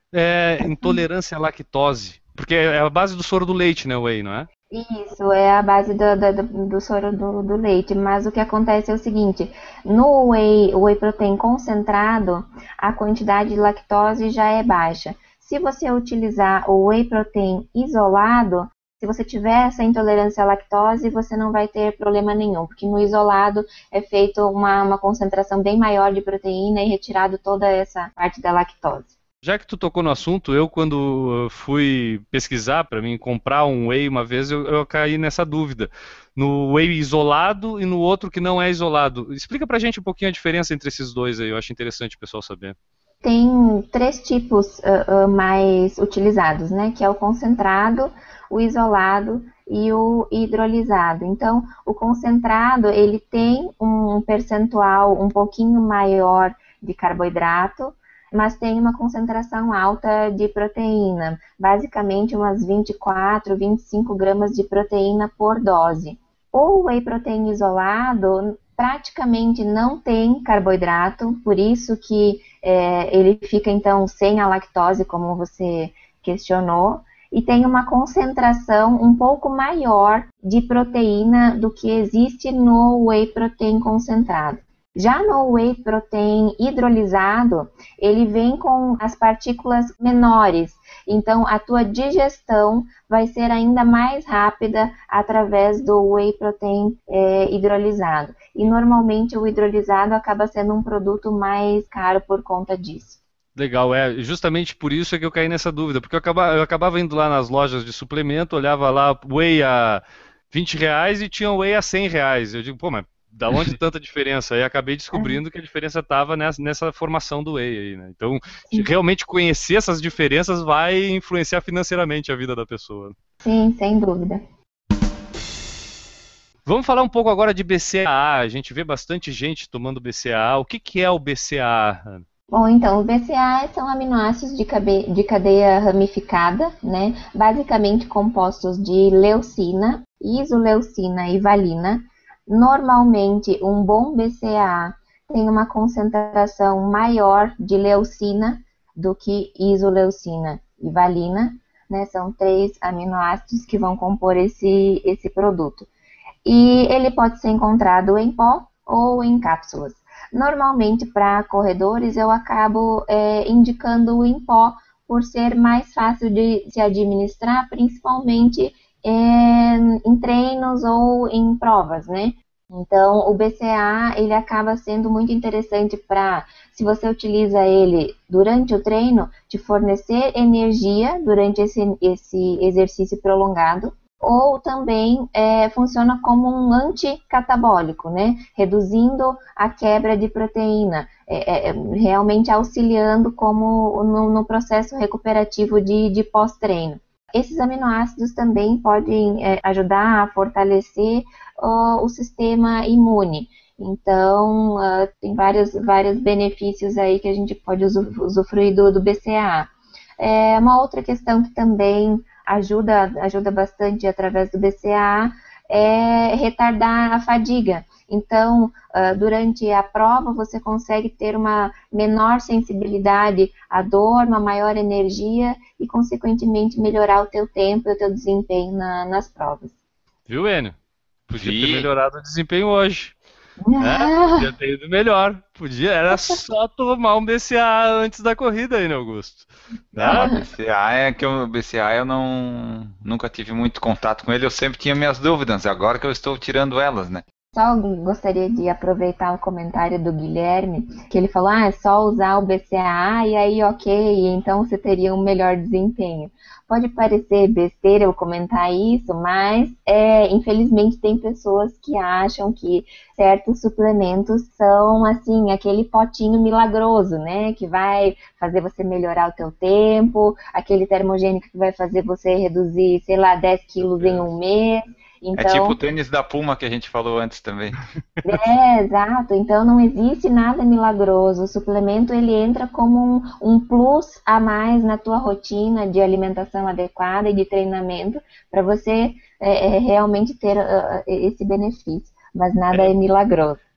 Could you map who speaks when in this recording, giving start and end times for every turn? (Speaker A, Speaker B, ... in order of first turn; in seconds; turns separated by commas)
Speaker A: 0.1-4.5, Speaker B: 0.6-1.0, Speaker B: 4.7-29.1, Speaker A: 29.4-42.7, Speaker B: 43.2-103.2, Speaker A: 103.5-123.1, Speaker B: 115.1-115.4, Speaker B: 123.4-124.4, Speaker A: 126.7-132.2, Speaker B: 132.5-155.9, Speaker B: 156.4-229.7, Speaker A: 230.3-230.8, Speaker A: 231.3-233.2, Speaker C: 231.4-231.9, Speaker B: 233.6-234.5, Speaker A: 233.8-240.3, Speaker B: 236.1-236.4, Speaker C: 239.9-247.2, Speaker B: 240.0-240.3, Speaker B: 247.5-275.8, Speaker C: 275.4-277.8, Speaker B: 278.2-293.6